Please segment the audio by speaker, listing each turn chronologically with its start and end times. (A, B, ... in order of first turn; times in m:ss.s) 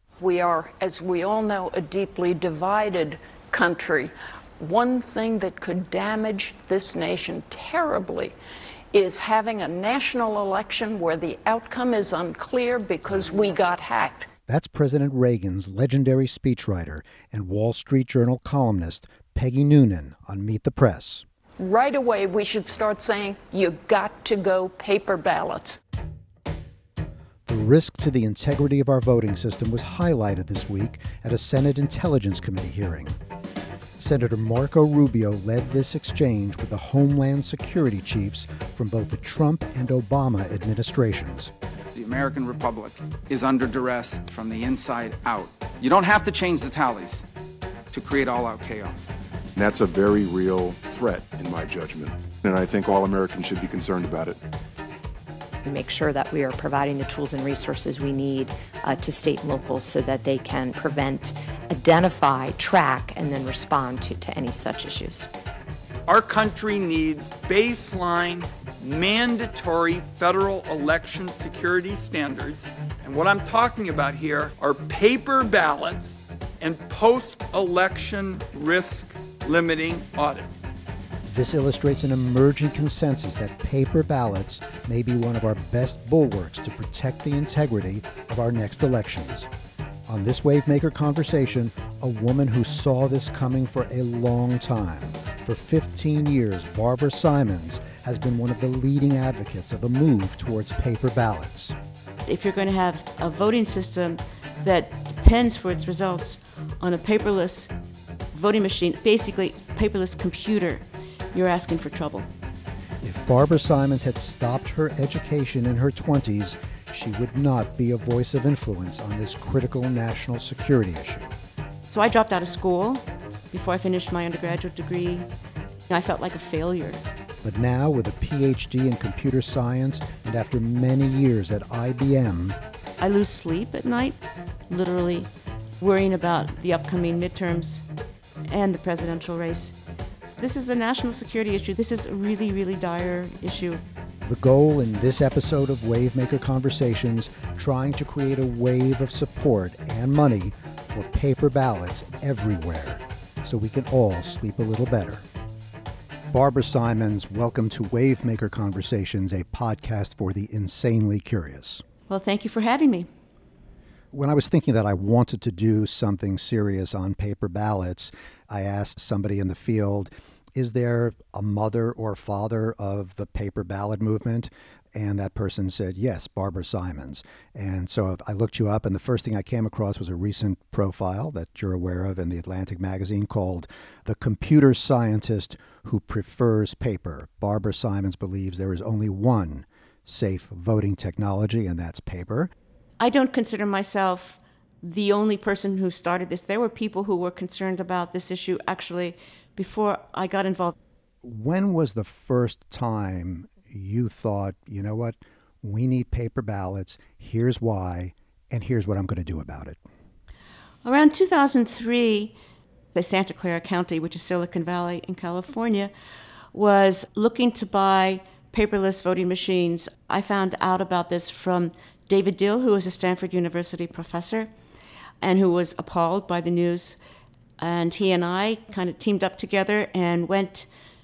0:00.2-0:08.3 A
0:08.9-0:14.3 A
0:14.5-0:21.2 B
0:21.6-0:25.8 A
0:27.4-0:33.2 B
0:34.0-0:41.5 B
0:41.9-0:47.2 C
0:47.9-0:49.1 C
0:49.6-0:54.4 D
0:55.6-1:05.3 E
1:06.0-1:20.6 F
1:21.2-1:29.5 B
1:30.1-1:41.8 B
1:42.2-1:47.7 G
1:48.3-1:52.3 G
1:53.0-2:01.3 B
2:01.9-2:05.3 G
2:05.9-2:07.0 G
2:07.4-2:12.6 B
2:13.0-2:15.3 G
2:15.8-2:17.8 G
2:18.5-2:19.7 G
2:20.4-2:23.8 G
2:24.2-2:35.2 B
2:36.3-2:41.8 B
2:42.1-2:43.1 G
2:44.1-3:12.5 B
3:13.0-3:20.7 G
3:21.2-3:29.8 B
3:30.8-3:32.3 G
3:32.9-3:35.9 G
3:36.5-3:44.5 G
3:45.2-3:47.0 G
3:47.6-3:50.7 G